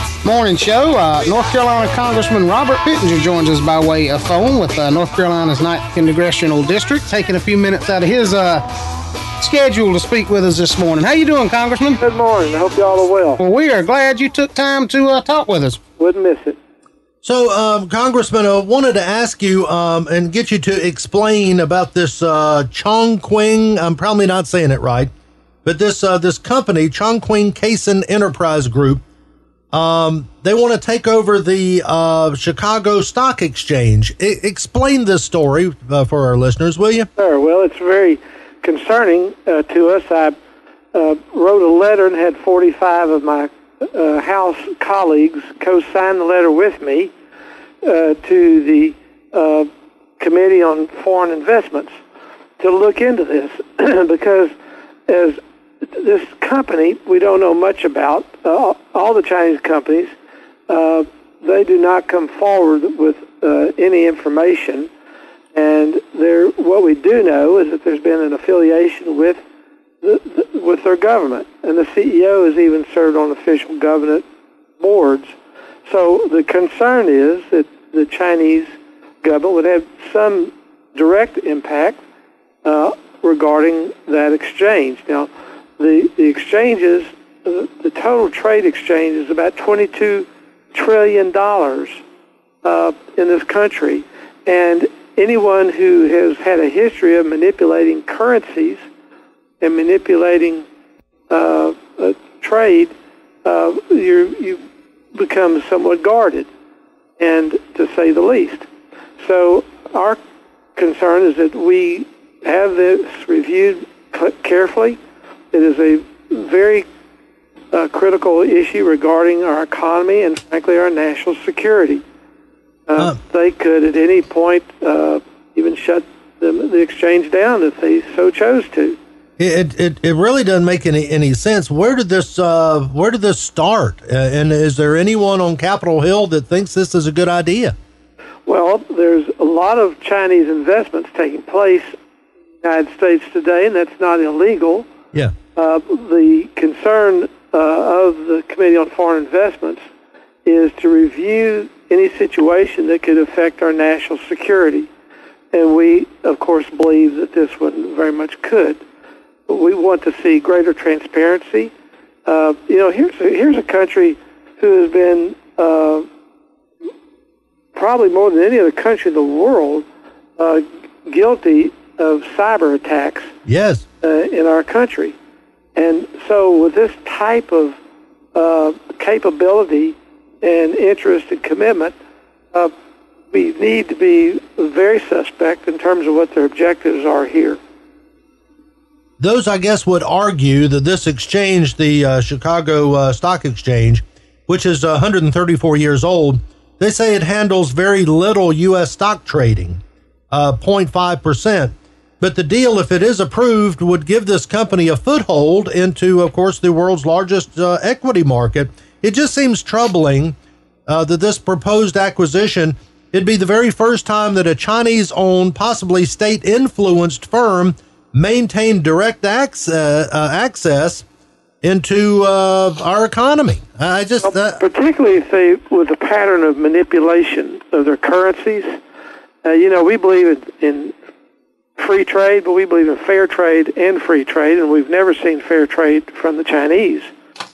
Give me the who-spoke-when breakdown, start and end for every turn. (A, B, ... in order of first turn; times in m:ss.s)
0:00.2-0:08.6 A
0:09.4-0:12.0 A
0:12.0-0:13.4 B
0:13.4-0:15.8 A
0:16.0-0:16.6 B
0:17.2-0:25.1 C
0:25.6-0:29.0 C
0:29.7-0:37.1 C
0:37.2-0:40.4 B
0:40.9-0:47.1 B
0:47.8-0:51.9 B
0:52.6-0:54.5 B
0:55.1-1:00.1 B
1:00.7-1:04.9 B
1:05.5-1:09.4 B
1:10.0-1:14.2 B
1:14.8-1:15.3 B
1:15.9-1:18.7 B
1:19.2-1:22.0 B
1:22.6-1:32.0 B
1:32.6-1:38.8 B
1:39.6-1:40.6 B
1:41.3-1:42.9 B
1:43.4-1:44.6 B
1:45.1-1:46.5 B
1:47.2-1:48.7 B
1:49.2-1:50.2 B
1:50.8-1:55.0 B
1:55.5-1:56.8 B
1:57.7-2:02.0 B
2:02.9-2:09.0 B
2:09.4-2:17.8 C
2:18.5-2:21.9 B
2:22.6-2:24.9 B
2:25.6-2:29.8 B
2:30.5-2:34.9 B
2:35.5-2:38.8 B
2:39.5-2:41.7 B
2:42.3-2:46.1 B
2:47.8-2:49.8 B
2:50.4-2:53.3 B
2:53.5-2:53.9 C
2:54.0-2:55.2 B
2:55.8-2:57.8 B
2:58.4-3:01.9 B
3:03.3-3:07.6 B
3:09.2-3:19.8 C
3:20.3-3:30.4 C
3:30.9-3:41.1 C
3:41.6-3:44.6 C
3:44.2-3:48.8 B
3:49.4-3:50.9 B
3:51.8-3:57.1 B